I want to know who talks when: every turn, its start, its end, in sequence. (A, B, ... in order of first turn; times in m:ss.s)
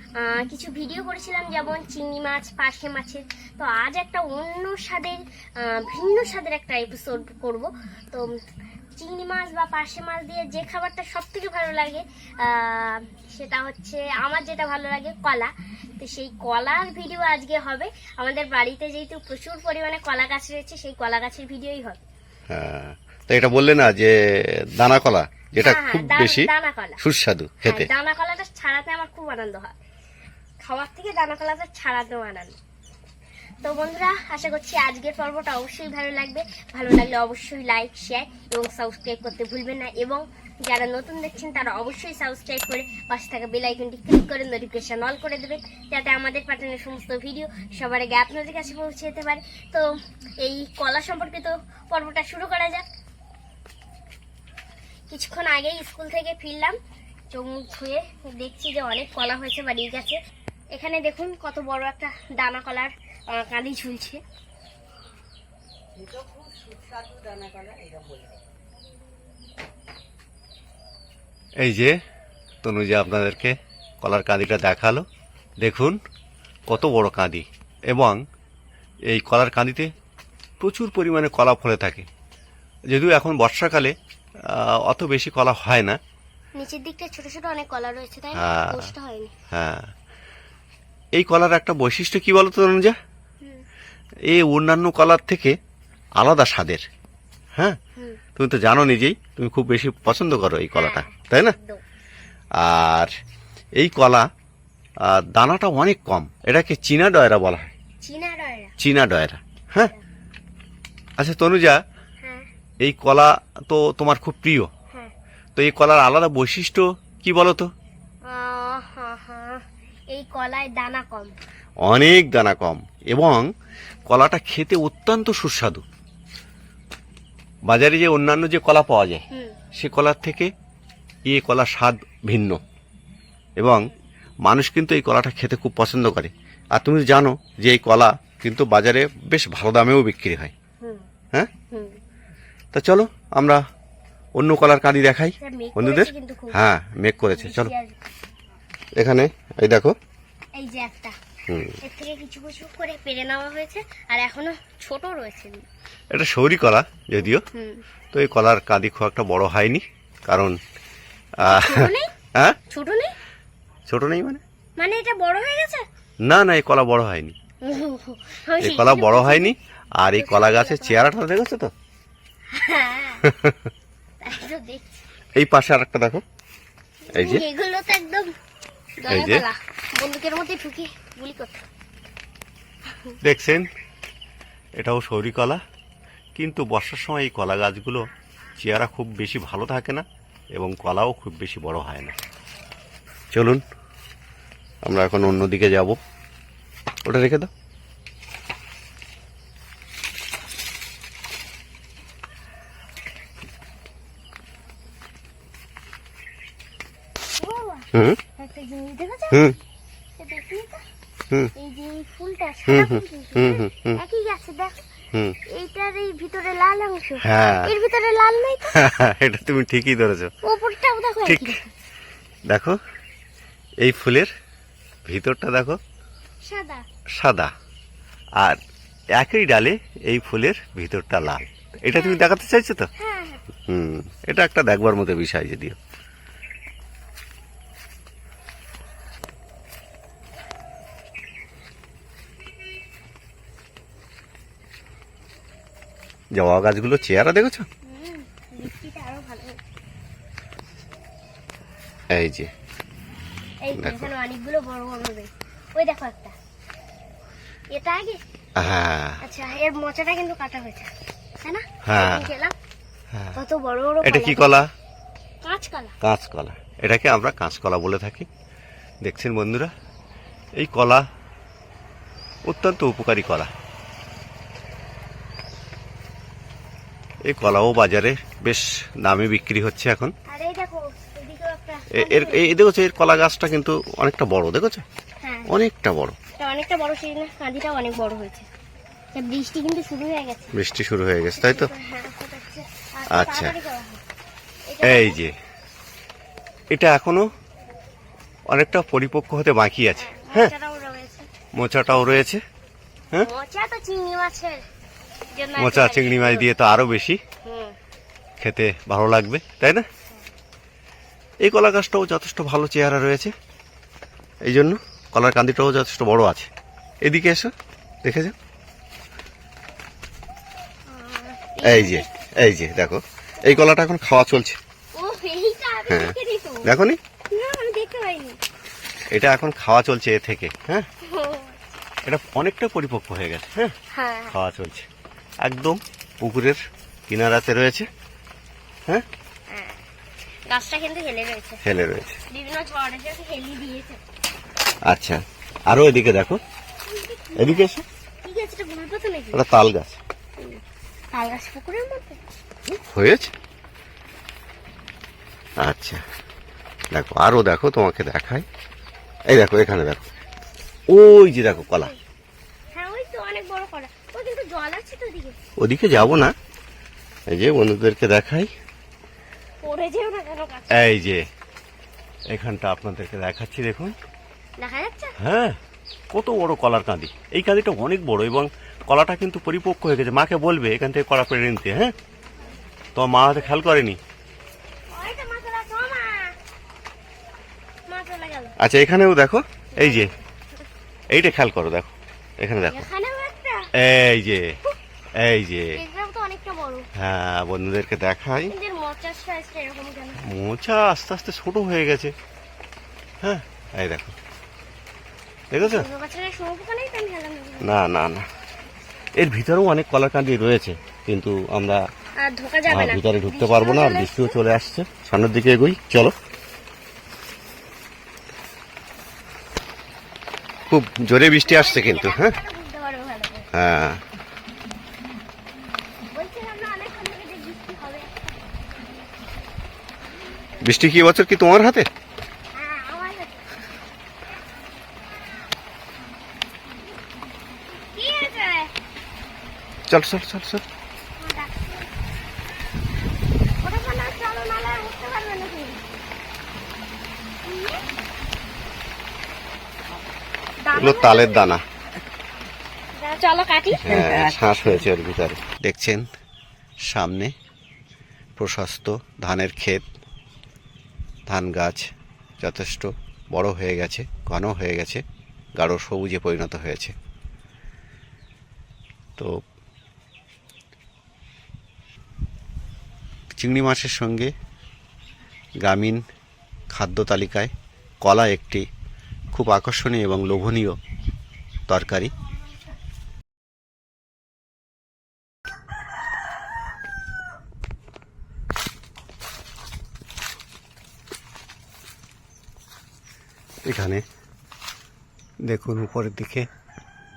0:00.2-0:08.3 A
0:09.0-0:22.0 A
0:22.5-0:27.9 B
0:25.6-0:27.0 A
0:27.7-0:29.8 A
0:30.6-0:32.6 A
0:33.6-0:49.9 A
0:50.4-0:52.8 A
0:55.1-0:56.8 A
0:57.3-1:00.2 A
1:00.7-1:04.2 A
1:11.6-1:12.0 B
1:12.6-1:15.0 B
1:15.6-1:16.0 B
1:16.7-1:18.2 B
1:19.1-1:19.9 B
1:20.6-1:22.1 B
1:22.9-1:26.0 B
1:26.6-1:29.3 A
1:28.4-1:28.9 B
1:29.5-1:29.9 B
1:31.2-1:33.0 B
1:34.3-1:35.6 B
1:36.2-1:36.8 B
1:38.4-1:41.6 B
1:40.8-1:41.8 A
1:42.6-1:43.1 B
1:43.8-1:44.3 B
1:45.0-1:47.7 B
1:48.0-1:48.7 A
1:48.8-1:49.9 B
1:51.2-1:51.8 B
1:52.2-1:52.5 A
1:52.8-1:54.7 B
1:55.6-1:57.7 B
1:58.2-2:01.4 A
2:01.8-2:03.5 B
2:04.1-2:05.8 B
2:07.7-2:10.5 B
2:11.3-2:12.6 B
2:13.6-2:13.9 B
2:14.5-2:20.5 B
2:20.8-2:21.1 A
2:21.7-2:22.0 A
2:22.7-2:23.6 B
2:24.4-2:27.7 B
2:25.4-2:26.7 A
2:27.4-2:28.0 A
2:29.0-2:30.0 B
2:30.6-2:31.2 A
2:31.5-2:31.8 B
2:31.8-2:35.6 A
2:36.1-2:37.4 B
2:37.5-2:37.8 A
2:38.1-2:40.6 B
2:41.4-2:42.6 B
2:41.4-2:42.1 A
2:42.7-2:43.1 A
2:43.9-2:44.4 B
2:44.8-2:45.9 A
2:46.2-2:47.4 B
2:47.6-2:49.5 A
2:48.6-2:51.7 B
2:50.2-2:51.0 A
2:52.5-2:53.3 A
2:53.2-2:53.6 B
2:54.2-2:55.0 A
2:55.4-2:56.2 B
2:57.1-2:58.3 A
2:57.1-2:57.4 B
2:59.0-3:01.6 A
2:59.1-2:59.5 B
3:02.9-3:03.2 A
3:03.2-3:03.7 B
3:04.8-3:05.6 B
3:06.4-3:08.1 B
3:08.6-3:12.2 B
3:13.3-3:13.6 B
3:14.9-3:16.0 B
3:17.0-3:17.5 B
3:27.4-3:29.5 A
3:27.9-3:28.2 B
3:29.3-3:29.6 B
3:30.2-3:30.8 A
3:31.6-3:34.8 A
3:32.7-3:34.0 B
3:35.5-3:38.8 A
3:37.2-3:37.7 B
3:38.8-3:40.3 B
3:40.4-3:41.7 A
3:41.2-3:41.6 B
3:42.5-3:42.8 B
3:43.8-3:44.3 B
3:45.1-3:45.8 B
3:46.4-3:46.8 A
3:47.2-3:47.5 B
3:49.2-3:52.9 B
3:51.9-3:52.2 A
3:53.0-3:53.4 A
3:53.7-3:55.8 B
4:06.4-4:07.7 B
4:07.9-4:09.6 A
4:12.1-4:12.5 B
4:13.6-4:16.4 A
4:13.8-4:14.1 B
4:17.7-4:18.2 A
4:18.6-4:19.2 B
4:19.2-4:20.9 A
4:21.4-4:22.6 A
4:21.8-4:22.3 B
4:23.1-4:23.4 B
4:23.4-4:24.6 A
4:24.0-4:24.7 B
4:25.4-4:26.0 A
4:26.0-4:28.3 B
4:29.0-4:29.7 B
4:30.6-4:31.0 B
4:32.5-4:33.5 B
4:37.3-4:40.1 B
4:40.3-4:42.5 A
4:41.9-4:44.8 B
4:45.2-4:45.5 A
4:45.5-4:46.2 B
4:46.4-4:48.5 A
4:49.1-4:50.5 A
4:50.5-4:51.7 B
4:51.4-4:54.0 A
4:53.1-4:53.6 B
4:54.7-4:55.2 A
4:54.8-4:55.4 B
4:56.7-4:57.3 B
4:58.5-5:00.5 B
5:00.0-5:01.3 A
5:01.6-5:02.4 B
5:03.2-5:04.6 A
5:05.3-5:06.5 A
5:05.6-5:07.2 B
5:07.4-5:07.8 A
5:08.4-5:09.9 B
5:11.4-5:13.3 B
5:14.5-5:16.5 B
5:17.0-5:17.5 B
5:18.0-5:18.4 B
5:20.9-5:22.1 A
5:21.6-5:24.6 B
5:23.4-5:23.7 A
5:25.0-5:26.7 A
5:25.9-5:27.0 B
5:27.3-5:28.4 A
5:29.1-5:30.9 B
5:31.0-5:31.7 A
5:32.0-5:33.7 B
5:33.9-5:34.4 A
5:34.3-5:34.9 B
5:35.4-5:37.9 B
5:39.5-5:39.9 A
5:40.5-5:41.6 A
5:41.6-5:42.2 B
5:42.3-5:44.0 A
5:44.9-5:46.4 B
5:46.8-5:47.7 A
5:47.4-5:47.8 B
5:48.2-5:49.4 A
5:49.3-5:50.0 B
5:51.1-5:52.2 A
5:52.7-5:53.3 B
5:55.6-5:56.0 B
5:56.9-5:58.5 B
5:59.3-6:00.1 B
6:00.9-6:01.9 B
6:01.5-6:02.0 A
6:02.7-6:05.4 A
6:05.6-6:06.4 B
6:07.3-6:08.5 B
6:09.6-6:10.8 A
6:10.7-6:11.2 B
6:12.3-6:14.0 B
6:14.6-6:15.2 A
6:15.2-6:15.6 B
6:16.1-6:21.9 B
6:23.0-6:24.0 B
6:24.9-6:26.4 A
6:27.9-6:28.6 A
6:28.6-6:30.1 B
6:29.7-6:30.2 A
6:31.1-6:32.8 B
6:32.7-6:33.7 A
6:33.8-6:34.6 B
6:35.2-6:35.8 B
6:35.7-6:36.9 A
6:37.0-6:38.5 B
6:38.5-6:40.2 A
6:40.2-6:42.1 B
6:43.2-6:44.1 B
6:45.5-6:45.9 B
6:45.6-6:47.8 A
6:47.6-6:48.3 B
6:49.2-6:51.8 B
6:52.2-6:54.4 A
6:52.7-6:56.1 B
7:00.7-7:02.4 B
7:01.4-7:03.5 A
7:03.5-7:04.0 B
7:06.1-7:08.2 A
7:10.6-7:11.9 B
7:12.5-7:13.5 A
7:17.8-7:18.7 A
7:19.9-7:20.6 B
7:21.2-7:21.9 A
7:23.6-7:25.8 A
7:27.4-7:27.9 A
7:30.6-7:31.6 A
7:30.7-7:31.6 B
7:33.0-7:34.5 A
7:33.8-7:36.1 B
7:36.9-7:37.3 B
7:38.4-7:39.8 B
7:41.3-7:45.0 B
7:45.6-7:47.0 B
7:53.4-7:54.3 B
7:55.6-7:56.0 B
7:56.7-7:57.5 B
7:58.0-7:58.6 B
7:59.3-8:00.8 B
8:01.7-8:02.1 B
8:13.6-8:14.0 B
8:15.5-8:16.5 B